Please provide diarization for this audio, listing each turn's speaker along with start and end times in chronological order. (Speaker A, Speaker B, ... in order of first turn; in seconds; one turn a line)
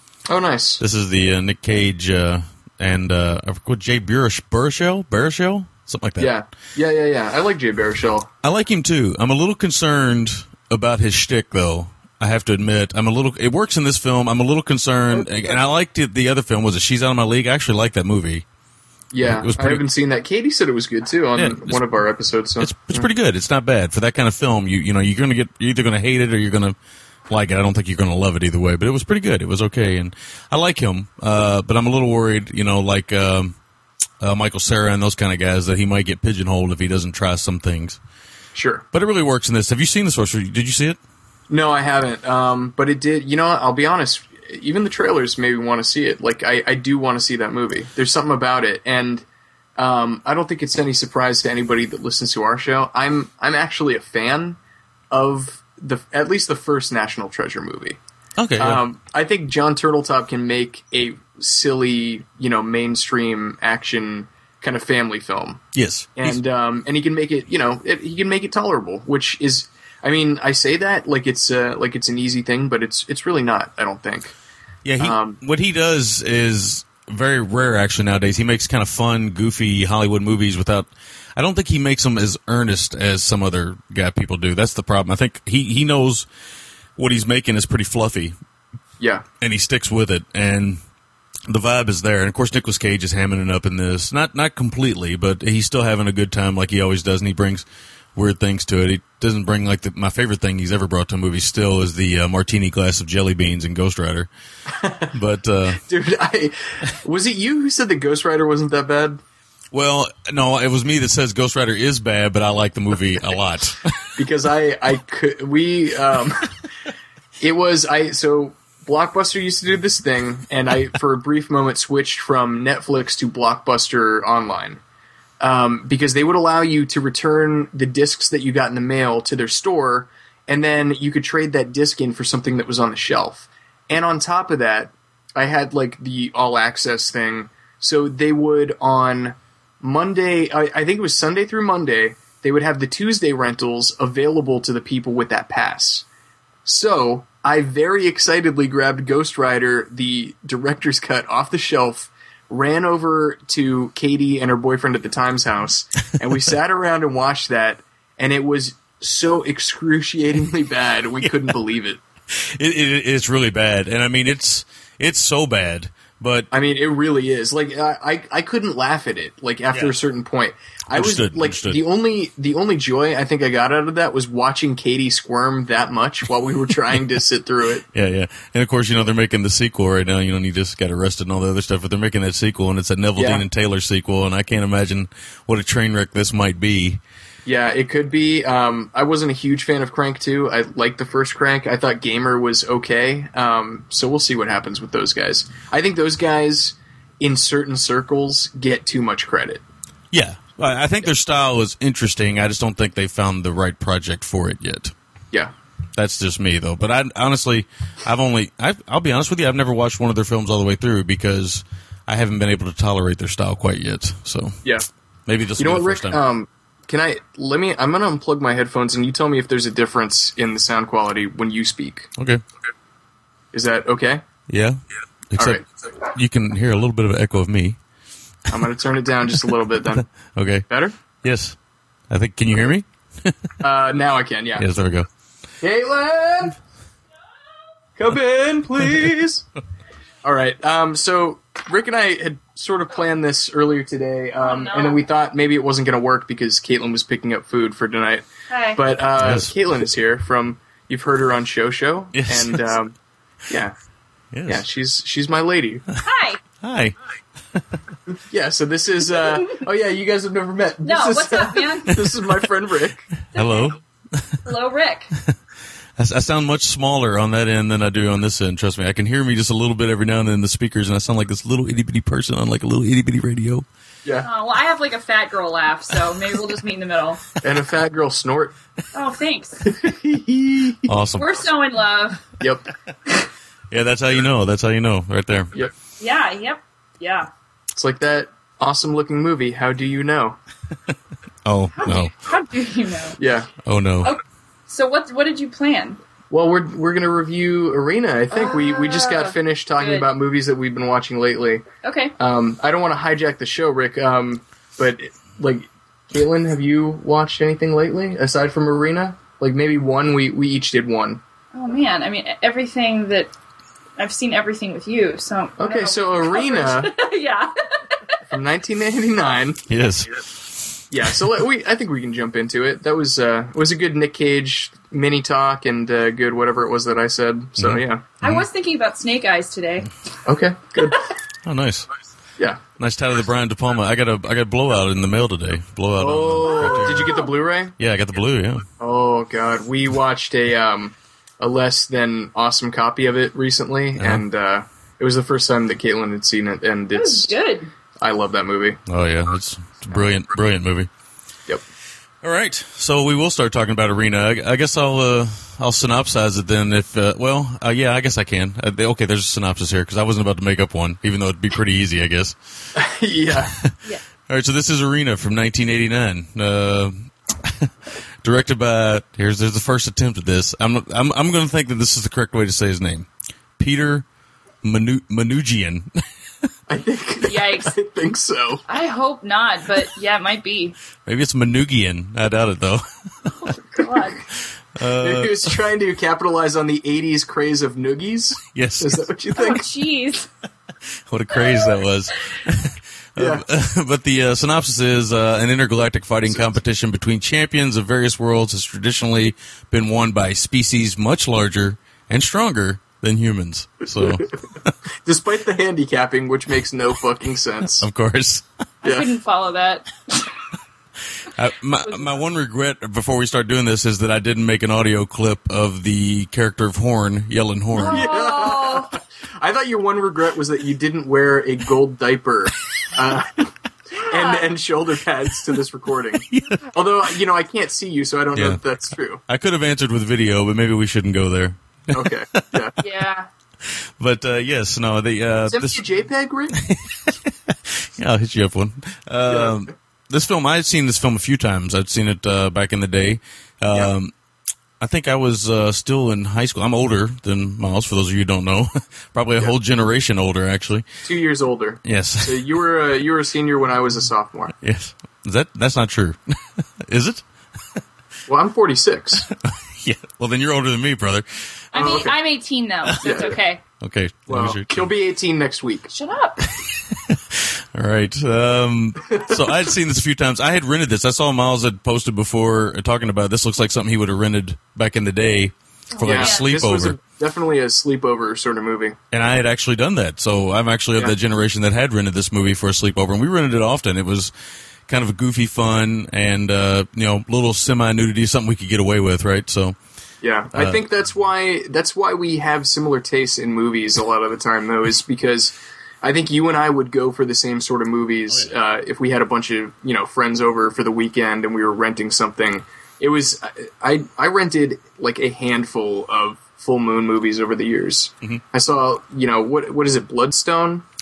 Speaker A: 0.3-0.8
Speaker B: 0.8-6.3
Speaker A: 6.2-8.3
Speaker B: 8.4-18.4
Speaker A: 15.1-15.6
Speaker A: 19.1-23.1
Speaker B: 19.2-19.8
Speaker B: 21.4-21.8
Speaker B: 22.6-26.8
Speaker B: 27.3-33.5
Speaker B: 34.2-38.0
Speaker A: 38.5-38.8
Speaker B: 38.9-41.0
Speaker A: 41.5-49.2
Speaker A: 49.8-54.6
Speaker A: 55.1-58.0
Speaker B: 58.4-58.8
Speaker A: 58.6-65.6
Speaker B: 65.7-66.4
Speaker A: 66.2-74.3
Speaker B: 74.8-86.2
Speaker A: 75.0-75.4
Speaker B: 87.0-88.3
Speaker B: 89.4-90.8
Speaker B: 91.5-104.3
Speaker A: 104.8-105.0
Speaker B: 105.1-105.8
Speaker A: 105.8-109.2
Speaker B: 109.7-113.9
Speaker A: 114.2-116.5
Speaker A: 117.4-124.8
Speaker A: 125.4-146.0
Speaker A: 146.7-162.0
Speaker B: 162.3-166.5
Speaker A: 166.5-177.8
Speaker B: 170.9-171.8
Speaker B: 177.9-187.0
Speaker A: 183.2-183.4
Speaker A: 187.4-199.6
Speaker B: 200.1-204.9
Speaker B: 206.0-214.6
Speaker B: 215.3-216.2
Speaker A: 215.6-222.1
Speaker B: 222.2-222.4
Speaker A: 223.5-224.2
Speaker B: 224.5-224.8
Speaker B: 225.3-227.8
Speaker A: 228.5-230.1
Speaker B: 230.0-230.7
Speaker A: 230.7-230.9
Speaker B: 231.2-231.5
Speaker B: 232.1-233.3
Speaker A: 233.6-234.6
Speaker B: 234.6-235.1
Speaker A: 235.6-236.6
Speaker A: 238.0-239.4
Speaker A: 240.2-252.9
Speaker C: 244.4-245.0
Speaker C: 248.5-248.8
Speaker B: 249.2-249.5
Speaker B: 252.1-252.8
Speaker A: 253.5-253.7
Speaker B: 254.3-254.6
Speaker A: 254.5-255.8
Speaker C: 256.0-256.4
Speaker B: 256.6-256.9
Speaker A: 258.3-263.1
Speaker C: 260.8-262.0
Speaker C: 263.3-263.8
Speaker B: 263.3-264.4
Speaker C: 264.4-265.1
Speaker B: 266.0-273.6
Speaker C: 274.2-277.2
Speaker A: 277.4-278.5
Speaker C: 278.9-279.6
Speaker A: 279.7-280.8
Speaker B: 280.9-281.4
Speaker C: 281.1-282.3
Speaker A: 282.4-282.7
Speaker B: 283.7-285.5
Speaker C: 286.0-287.3
Speaker A: 287.7-290.4
Speaker B: 291.4-292.1
Speaker C: 291.8-293.2
Speaker A: 293.2-293.5
Speaker B: 293.6-294.1
Speaker C: 294.0-296.0
Speaker A: 296.3-301.6
Speaker C: 298.3-300.1
Speaker C: 301.8-302.1
Speaker A: 302.2-311.2
Speaker C: 311.5-313.3
Speaker C: 314.0-318.1
Speaker A: 315.6-316.9
Speaker A: 318.3-319.6
Speaker B: 319.7-320.3
Speaker A: 320.9-328.3
Speaker B: 327.6-328.4
Speaker C: 328.2-329.9
Speaker A: 330.2-331.0
Speaker B: 331.4-331.9
Speaker B: 332.8-337.2
Speaker A: 336.0-337.7
Speaker C: 336.6-337.3
Speaker B: 337.8-338.6
Speaker A: 338.8-347.3
Speaker B: 344.0-344.2
Speaker C: 346.9-347.7
Speaker A: 348.0-348.8
Speaker B: 348.9-350.9
Speaker B: 352.2-362.3
Speaker A: 362.8-363.5
Speaker B: 364.3-367.7
Speaker B: 368.2-373.1
Speaker B: 373.6-374.0
Speaker B: 374.6-376.0
Speaker A: 376.7-378.6
Speaker C: 377.2-377.7
Speaker C: 378.7-380.8
Speaker B: 381.0-383.3
Speaker C: 383.4-384.2
Speaker B: 384.8-385.5
Speaker A: 385.0-389.6
Speaker B: 388.5-389.0
Speaker C: 389.4-390.3
Speaker B: 391.1-404.7
Speaker C: 391.3-391.8
Speaker A: 393.2-393.4
Speaker A: 396.3-396.6
Speaker A: 405.0-407.8
Speaker B: 407.8-408.4
Speaker C: 408.8-409.9
Speaker B: 411.3-418.1
Speaker C: 411.8-412.2
Speaker C: 417.7-418.9
Speaker A: 417.8-423.5
Speaker C: 423.9-424.6
Speaker A: 424.1-429.2
Speaker B: 426.3-426.7
Speaker B: 428.3-428.6
Speaker B: 429.3-432.5
Speaker A: 431.9-432.7
Speaker C: 432.8-433.3
Speaker B: 433.6-435.8
Speaker A: 435.5-436.6
Speaker B: 436.5-444.1
Speaker A: 439.3-439.6
Speaker B: 444.8-450.8
Speaker A: 451.0-454.5
Speaker B: 451.8-452.5
Speaker B: 454.6-457.2
Speaker A: 458.3-459.2
Speaker B: 459.8-461.6
Speaker C: 461.7-463.6
Speaker A: 461.7-462.1
Speaker B: 462.9-463.3
Speaker A: 463.0-463.4
Speaker B: 463.8-464.9
Speaker A: 464.3-465.9
Speaker C: 465.9-466.4
Speaker B: 466.6-476.9
Speaker C: 475.9-476.5
Speaker A: 476.0-479.0
Speaker B: 479.1-484.3
Speaker B: 484.9-489.7
Speaker A: 490.2-510.8
Speaker B: 490.5-490.8